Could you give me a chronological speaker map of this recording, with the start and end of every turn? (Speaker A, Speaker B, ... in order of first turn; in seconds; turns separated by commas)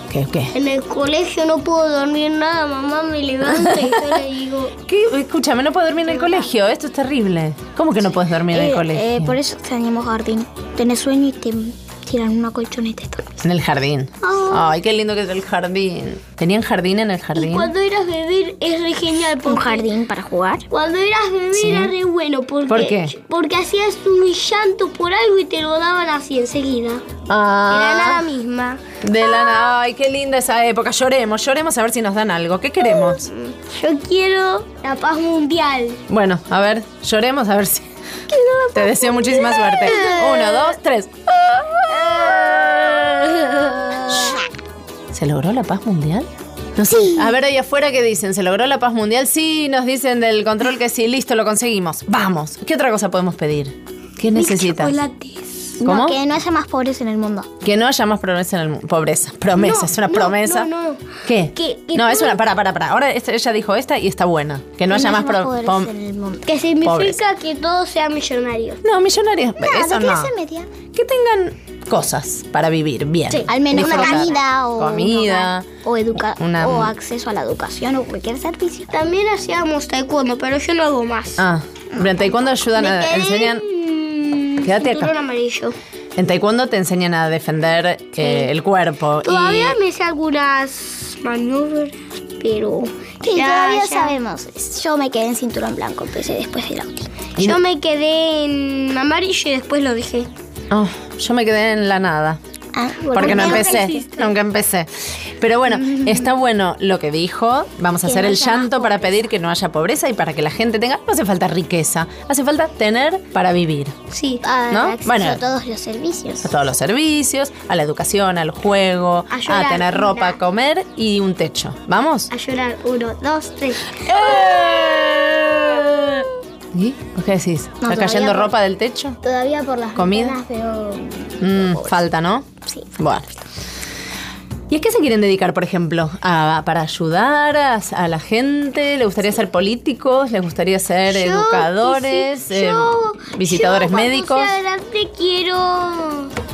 Speaker A: 0.1-0.5, Speaker B: 0.5-4.7, Speaker A: 3.4-4.1, Speaker A: 4.8-9.3, Speaker C: 8.5-13.2, Speaker A: 13.4-17.7, Speaker B: 17.4-19.8, Speaker C: 19.4-20.6, Speaker B: 20.7-27.0, Speaker A: 21.5-21.9, Speaker A: 22.7-23.1, Speaker A: 27.3-28.2, Speaker B: 27.7-28.8, Speaker A: 29.0-33.3, Speaker B: 32.9-36.0, Speaker A: 36.1-37.9, Speaker A: 38.7-41.1, Speaker B: 39.0-40.2, Speaker A: 45.1-55.0, Speaker C: 54.4-54.8, Speaker C: 55.8-57.5, Speaker A: 55.8-56.2, Speaker A: 57.6-60.7, Speaker B: 59.6-61.0, Speaker A: 61.2-65.9, Speaker B: 61.6-62.2, Speaker C: 64.9-66.5, Speaker B: 66.5-68.8, Speaker A: 66.8-67.2, Speaker A: 68.8-70.3, Speaker C: 69.6-70.7, Speaker A: 70.9-75.7, Speaker C: 73.3-78.9, Speaker A: 76.2-76.9, Speaker B: 78.9-81.3, Speaker A: 81.4-83.6, Speaker B: 82.7-85.7, Speaker A: 84.6-85.1, Speaker A: 86.2-89.8, Speaker B: 89.3-91.9, Speaker C: 93.2-97.2, Speaker B: 93.3-94.1, Speaker B: 97.4-100.3, Speaker A: 100.7-102.4, Speaker C: 102.7-104.0, Speaker B: 103.1-104.0, Speaker A: 103.1-114.0, Speaker C: 108.2-108.7, Speaker B: 114.1-114.4, Speaker C: 114.4-116.5, Speaker A: 114.7-115.4, Speaker A: 116.4-122.3, Speaker B: 119.4-120.3, Speaker B: 122.4-124.6, Speaker A: 124.1-125.3, Speaker A: 126.7-129.2, Speaker C: 128.1-128.4, Speaker B: 129.8-130.3, Speaker A: 129.9-130.4, Speaker A: 131.4-133.3, Speaker A: 134.7-144.5, Speaker B: 141.1-146.3